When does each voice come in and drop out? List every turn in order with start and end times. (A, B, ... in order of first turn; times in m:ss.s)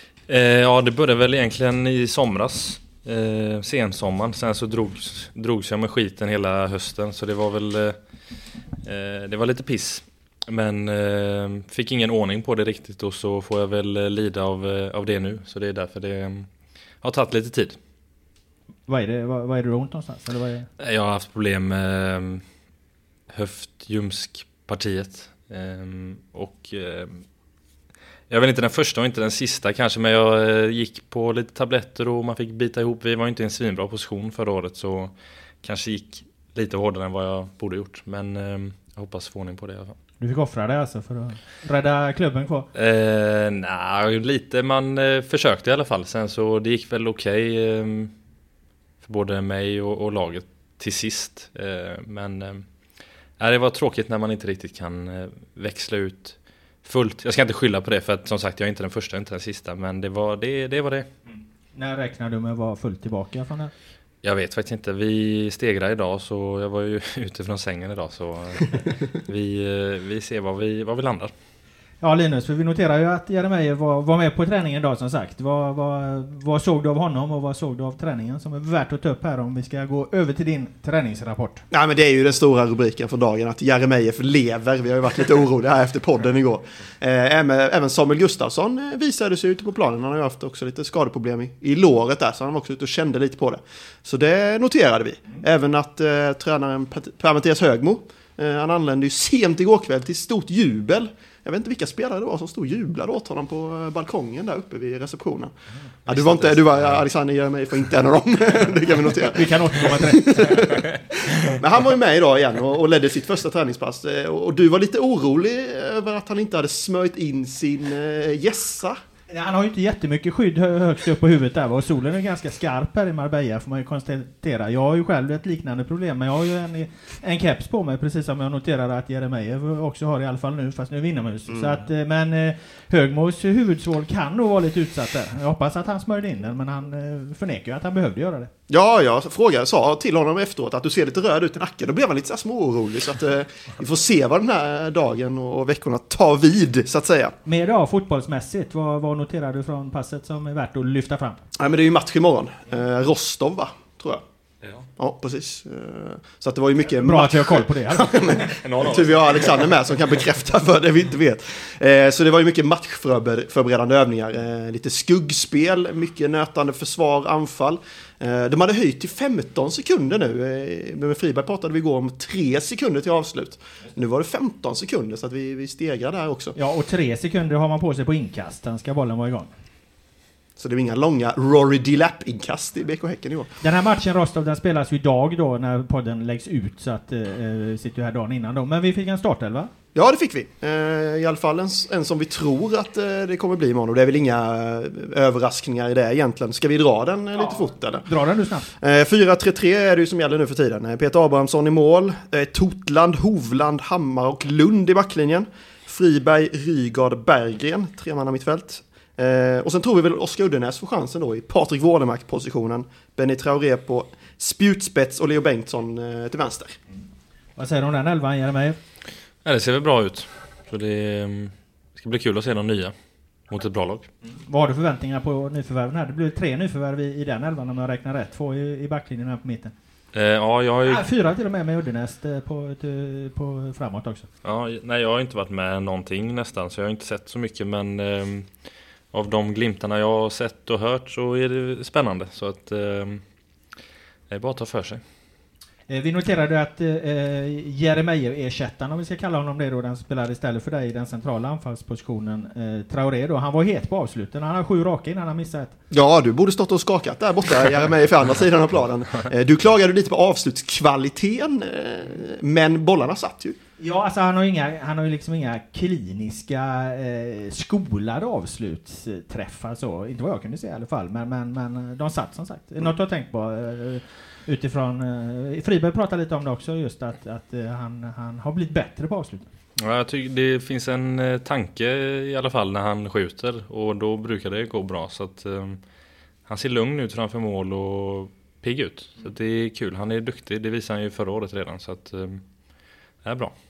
0:00.3-0:08.0 A
0:08.8-0:16.5 A
0:17.0-0:17.8 A
0:18.9-0:20.7 B
0:20.8-0:22.4 A
0:23.3-0:27.2 A
0:28.3-0:40.0 A
0:40.2-0:42.7 B
0:42.7-0:48.1 A
0:49.0-0:52.6 A
0:53.4-1:01.1 A
1:01.7-1:03.7 B
1:04.2-1:11.3 A
1:12.0-1:21.6 B
1:21.7-1:45.5 C
1:46.1-1:47.0 A
1:46.1-1:59.0 C
1:49.3-1:50.7 B
1:59.3-2:18.5 B
2:11.5-2:11.8 C
2:18.7-2:27.4 C
2:27.4-2:31.4 B
2:31.6-2:34.2 C
2:35.0-2:56.6 C
2:37.0-2:38.5 B
2:38.6-2:39.6 A
2:56.6-2:59.5 B
3:00.6-3:03.5 C
3:03.6-3:09.7 B
3:09.9-3:18.1 C
3:17.3-3:18.7 B
3:18.8-3:36.8 C
3:37.6-3:38.8 B
3:39.4-3:42.9 A
3:43.5-3:44.1 A
3:44.4-3:49.7 B
3:50.1-3:51.0 A
3:50.8-3:54.3 B
3:54.4-3:58.5 A
3:59.1-4:03.2 A
4:04.3-4:05.0 A
4:05.9-4:15.7 B
4:15.9-4:23.6 C
4:23.8-4:39.4 B
4:39.8-4:45.8 A
4:46.4-4:52.4 A
4:53.2-4:53.5 A